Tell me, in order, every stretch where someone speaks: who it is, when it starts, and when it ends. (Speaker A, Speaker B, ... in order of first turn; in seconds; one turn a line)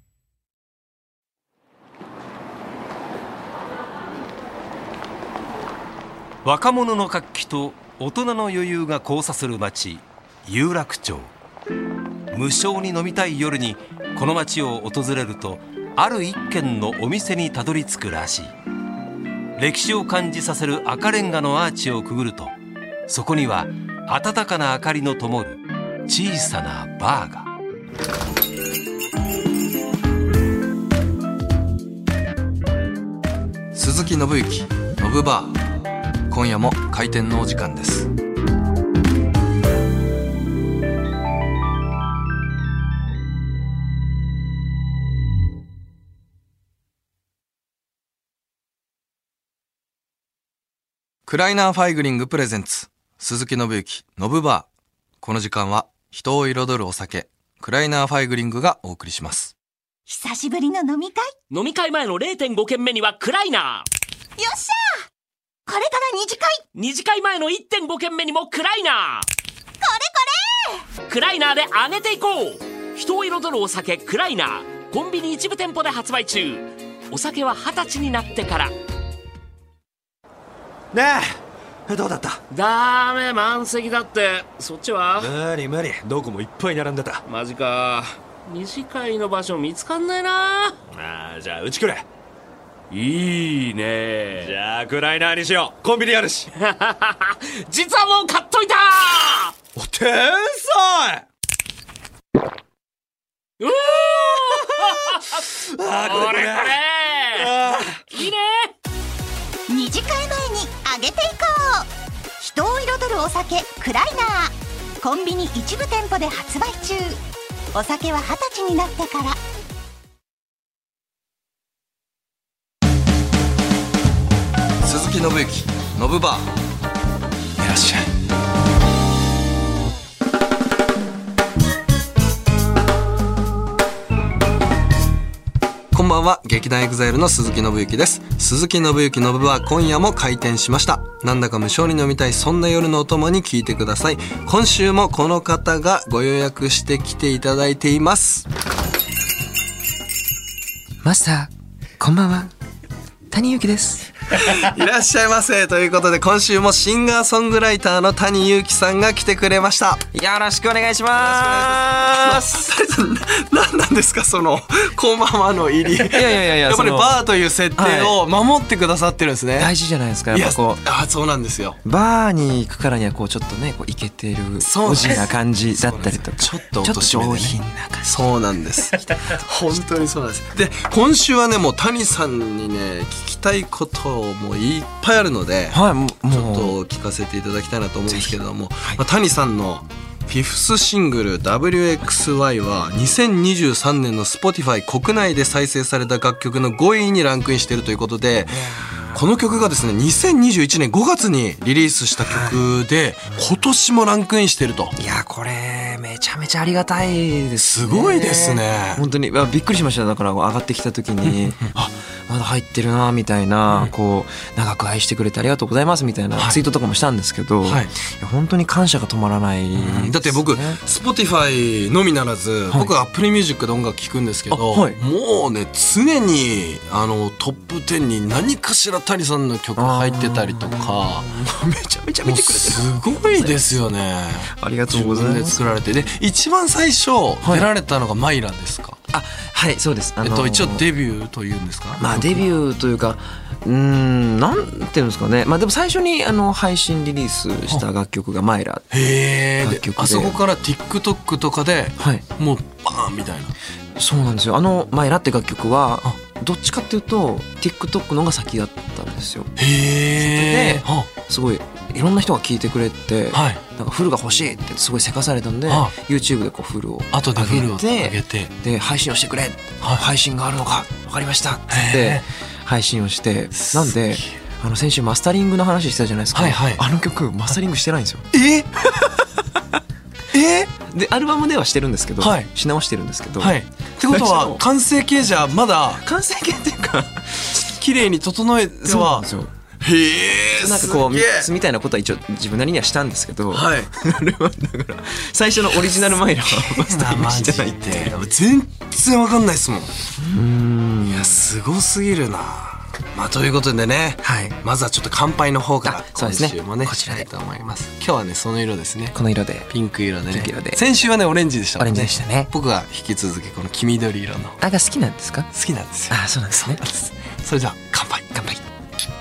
Speaker A: 6.4-11.3
Speaker A: 12.3-18.5
Speaker A: 19.6-22.5
Speaker A: 23.1-27.5
Speaker B: 33.7-35.6
Speaker B: 36.3-38.1
Speaker B: 51.2-54.7
Speaker B: 55.2-59.5
Speaker C: 60.1-61.3
Speaker D: 61.5-63.9
Speaker C: 64.4-65.0
Speaker C: 65.7-66.6
Speaker D: 66.7-69.3
Speaker C: 69.8-70.8
Speaker D: 71.1-78.7
Speaker E: 80.9-81.2
Speaker E: 81.9-82.4
Speaker D: 82.5-85.4
Speaker E: 85.2-87.2
Speaker D: 87.2-90.8
Speaker E: 91.0-92.0
Speaker D: 92.9-94.6
Speaker E: 94.5-96.4
Speaker D: 96.5-99.5
Speaker E: 99.8-101.2
Speaker D: 103.6-108.7
Speaker C: 109.7-111.9
Speaker C: 112.4-117.2
Speaker C: 117.7-119.4
Speaker B: 124.8-126.5
Speaker B: 127.6-128.1
Speaker B: 135.9-148.5
Speaker F: 151.0-152.5
Speaker F: 153.3-154.1
Speaker B: 154.3-160.1
Speaker F: 160.1-162.6
Speaker B: 161.1-169.7
Speaker F: 166.0-167.2
Speaker F: 167.8-168.2
Speaker F: 169.6-170.8
Speaker B: 170.3-171.8
Speaker F: 171.8-178.2
Speaker B: 174.6-204.9
Speaker F: 185.7-186.7
Speaker F: 188.1-189.0
Speaker F: 198.5-199.2
Speaker F: 202.2-202.6
Speaker F: 204.9-220.8
Speaker B: 207.6-209.0
Speaker B: 211.2-211.5
Speaker B: 217.6-217.9
Speaker B: 219.7-231.3
Speaker F: 224.5-225.0
Speaker F: 229.8-233.8
Speaker B: 232.2-239.0
Speaker F: 234.5-235.7
Speaker F: 239.1-240.8
Speaker B: 240.2-242.4
Speaker F: 242.0-248.9
Speaker B: 248.9-253.5
Speaker F: 249.6-250.4
Speaker F: 252.0-252.2
Speaker F: 253.9-259.5
Speaker B: 259.6-261.1
Speaker F: 260.2-278.3
Speaker B: 263.3-263.6
Speaker B: 265.7-265.9
Speaker B: 267.1-268.5
Speaker B: 271.7-272.2
Speaker B: 273.5-274.3
Speaker B: 276.3-276.8
Speaker B: 278.3-278.7
Speaker B: 280.3-280.7
Speaker F: 280.8-283.6
Speaker B: 282.2-282.5
Speaker B: 283.4-286.0
Speaker F: 284.1-284.6
Speaker F: 286.0-287.6
Speaker B: 287.6-289.2
Speaker F: 288.8-289.5
Speaker B: 289.8-291.5
Speaker F: 290.5-298.1
Speaker B: 293.5-293.9
Speaker B: 295.7-299.9
Speaker F: 300.2-301.4
Speaker B: 301.0-309.2
Speaker F: 304.2-304.6
Speaker F: 305.8-307.3
Speaker F: 309.1-309.7
Speaker B: 309.7-314.6
Speaker F: 310.3-310.8
Speaker F: 311.8-312.5
Speaker F: 314.6-315.5
Speaker B: 315.5-318.4
Speaker F: 316.1-316.9
Speaker F: 318.3-318.6